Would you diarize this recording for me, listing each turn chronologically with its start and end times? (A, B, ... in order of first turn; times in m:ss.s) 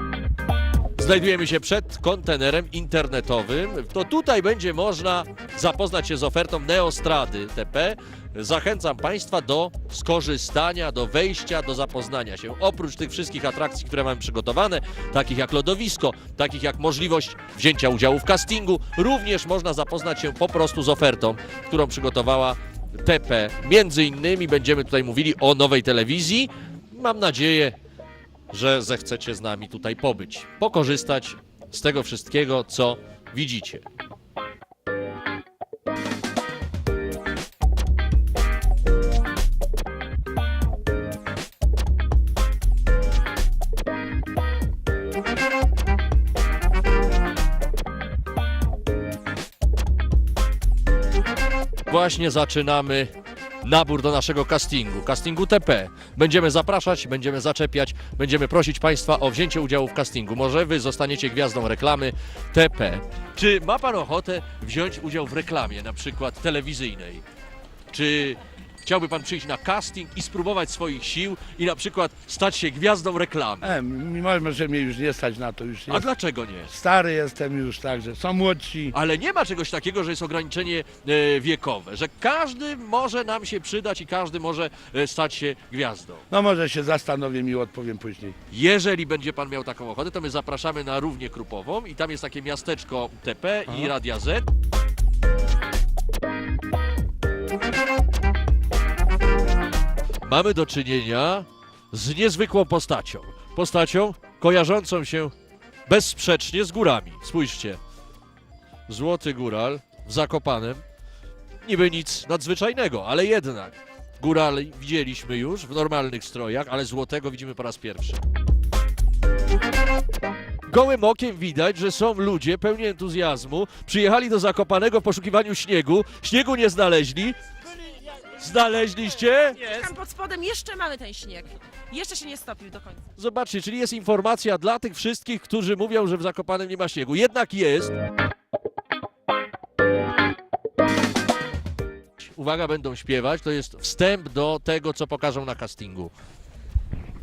0:01.0-0:27.8 A
0:28.5-0:33.8 A
0:51.9-1:07.2 A
1:07.9-1:13.8 A
1:13.6-1:16.0 B
1:15.9-1:16.7 A
1:16.7-1:18.9 B
1:18.9-1:26.2 A
1:26.3-1:28.4 B
1:28.5-1:34.4 A
1:40.2-1:45.3 A
1:45.9-1:47.8 A
1:48.9-1:50.8 A
1:51.6-1:58.2 A
2:00.7-2:07.4 A
2:08.1-2:09.7 A
2:09.6-2:13.0 C
2:13.2-2:18.0 A
2:22.2-2:26.1 A